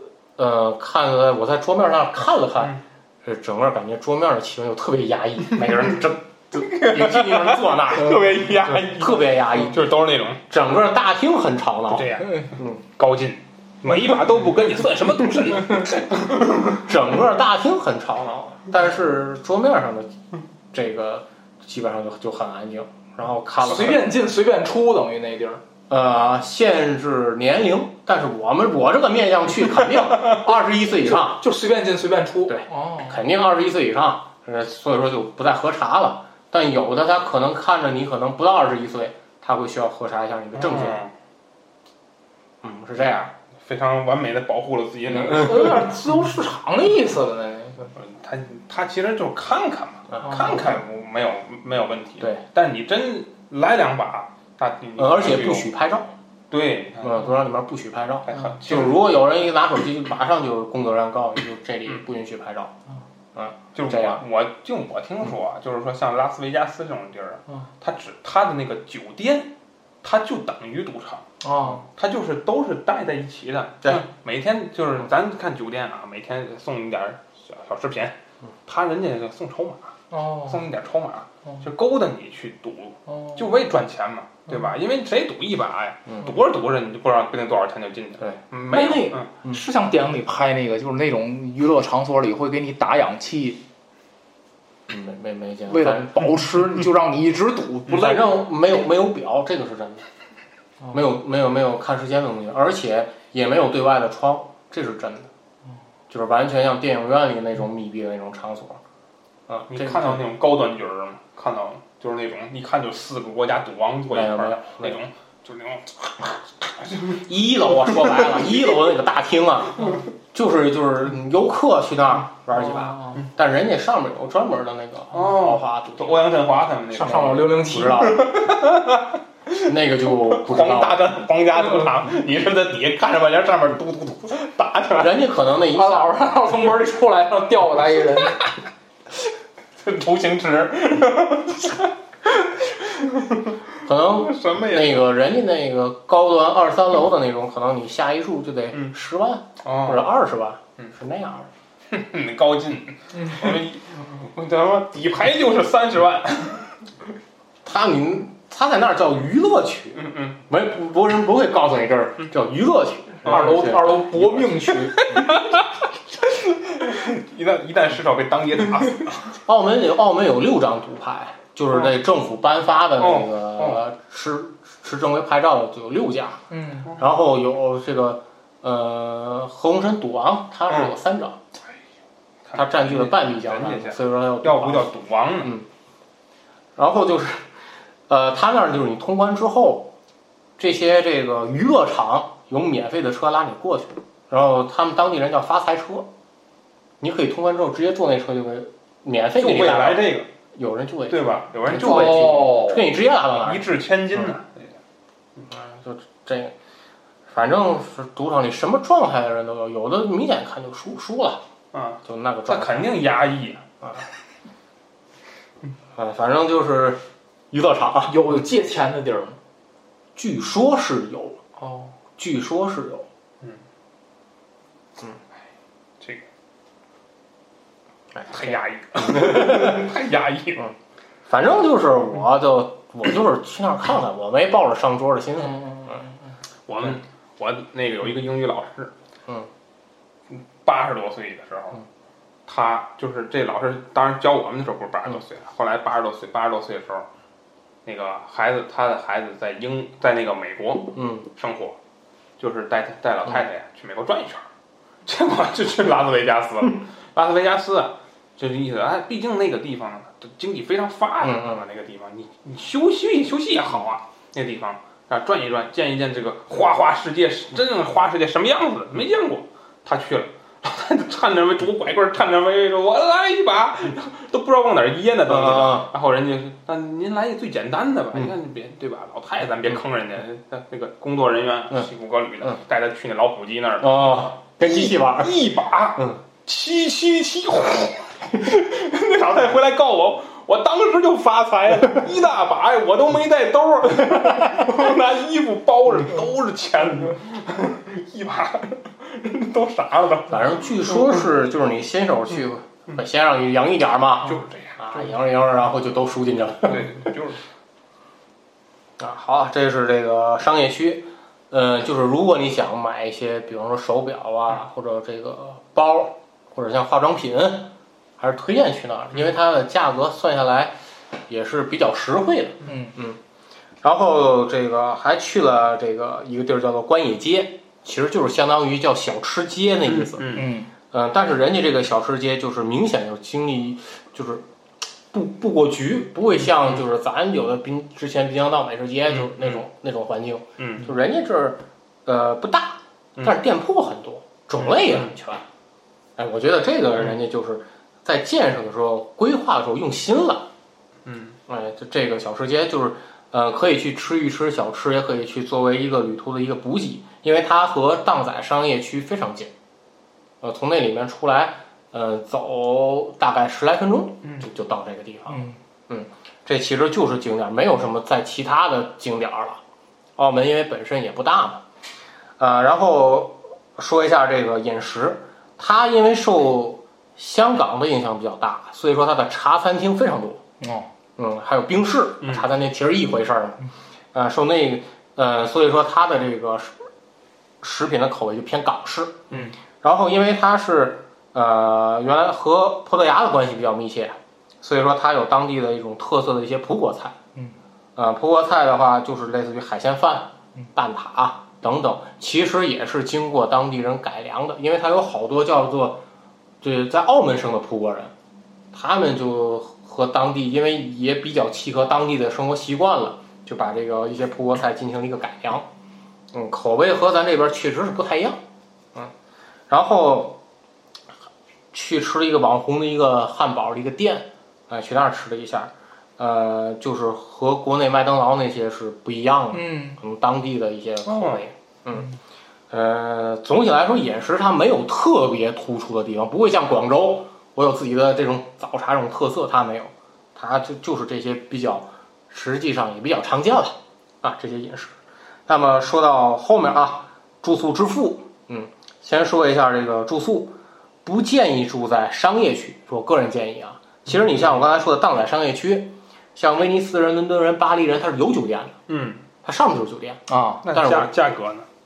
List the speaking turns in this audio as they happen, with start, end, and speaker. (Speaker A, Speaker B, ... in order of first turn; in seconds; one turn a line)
Speaker A: 0.4-9.9
Speaker B: 6.6-10.4
Speaker A: 10.5-12.8
Speaker B: 11.9-16.6
Speaker A: 16.7-20.1
Speaker A: 20.7-24.1
Speaker C: 23.6-25.6
Speaker A: 25.9-31.4
Speaker C: 30.7-33.2
Speaker A: 32.5-41.0
Speaker B: 40.5-41.1
Speaker A: 42.6-43.3
Speaker B: 43.6-45.9
Speaker C: 45.3-47.9
Speaker B: 48.0-55.7
Speaker A: 50.1-50.6
Speaker A: 55.0-56.1
Speaker B: 56.5-57.3
Speaker A: 57.0-62.7
Speaker B: 58.2-59.0
Speaker A: 63.3-64.2
Speaker B: 63.7-69.5
Speaker B: 70.0-71.2
Speaker C: 71.4-71.8
Speaker B: 71.9-79.9
Speaker C: 80.1-80.6
Speaker B: 80.5-89.3
Speaker C: 83.1-83.4
Speaker C: 88.7-93.6
Speaker A: 94.9-96.1
Speaker C: 95.7-98.3
Speaker A: 97.9-100.0
Speaker A: 100.9-105.3
Speaker A: 106.1-108.8
Speaker A: 109.5-110.2
Speaker B: 109.7-117.2
Speaker A: 114.1-115.0
Speaker A: 117.1-126.3
Speaker C: 122.6-123.2
Speaker B: 125.1-135.2
Speaker C: 126.9-128.1
Speaker A: 127.0-128.5
Speaker A: 129.6-131.1
Speaker A: 135.0-136.1
Speaker C: 135.7-138.4
Speaker B: 139.8-141.9
Speaker B: 142.7-143.5
Speaker A: 143.8-151.5
Speaker B: 144.1-145.1
Speaker B: 149.6-150.1
Speaker B: 151.9-156.8
Speaker A: 157.6-164.5
Speaker B: 159.9-160.4
Speaker B: 163.2-163.7
Speaker C: 163.2-165.2
Speaker B: 164.9-165.5
Speaker B: 166.5-169.3
Speaker A: 169.4-176.4
Speaker B: 173.0-173.8
Speaker C: 176.5-176.9
Speaker A: 176.9-181.4
Speaker B: 182.4-185.6
Speaker A: 182.5-185.7
Speaker A: 186.8-187.5
Speaker A: 188.1-189.9
Speaker A: 190.6-196.1
Speaker A: 197.0-204.3
Speaker B: 199.4-200.3
Speaker B: 201.1-202.6
Speaker C: 201.7-202.8
Speaker B: 203.4-204.7
Speaker A: 205.5-206.5
Speaker A: 207.3-211.4
Speaker B: 211.7-213.6
Speaker A: 212.0-213.0
Speaker A: 215.9-218.2
Speaker C: 218.1-219.4
Speaker A: 220.2-221.4
Speaker C: 221.6-221.9
Speaker A: 222.2-223.1
Speaker A: 228.2-229.9
Speaker B: 228.3-230.7
Speaker A: 231.2-236.0
Speaker C: 235.4-236.1
Speaker B: 236.7-238.9
Speaker B: 240.3-241.8
Speaker B: 242.5-247.1
Speaker B: 247.8-251.8
Speaker A: 250.9-251.2
Speaker B: 252.4-254.5
Speaker B: 255.0-284.0
Speaker A: 261.2-261.6
Speaker A: 275.3-275.9
Speaker A: 283.8-285.4
Speaker B: 284.6-301.2
Speaker A: 300.3-306.9
Speaker B: 304.2-305.1
Speaker B: 306.6-307.4
Speaker A: 309.0-320.8
Speaker A: 321.3-323.2
Speaker C: 322.6-322.9
Speaker A: 323.8-334.4
Speaker B: 329.9-330.5
Speaker C: 330.3-330.7
Speaker A: 335.1-345.4
Speaker B: 339.1-339.6
Speaker B: 340.6-340.9
Speaker B: 344.5-345.1
Speaker A: 346.2-350.5
Speaker B: 351.0-351.4
Speaker A: 351.5-359.5
Speaker A: 360.4-369.6
Speaker C: 365.3-365.6
Speaker A: 370.2-371.6
Speaker A: 372.4-380.4
Speaker C: 380.6-380.9
Speaker A: 381.2-383.6
Speaker B: 382.2-382.5
Speaker A: 384.1-386.7
Speaker A: 387.6-389.3
Speaker A: 389.8-397.1
Speaker A: 397.9-406.0
Speaker A: 406.6-408.1
Speaker A: 408.7-415.7
Speaker A: 416.3-418.4
Speaker A: 419.7-420.4
Speaker A: 421.7-432.1
Speaker C: 429.5-430.0
Speaker B: 431.1-431.4
Speaker A: 432.7-444.9
Speaker A: 445.5-450.5
Speaker A: 451.0-458.8
Speaker B: 458.9-459.2
Speaker A: 459.4-461.1
Speaker C: 460.3-460.6
Speaker B: 460.6-461.7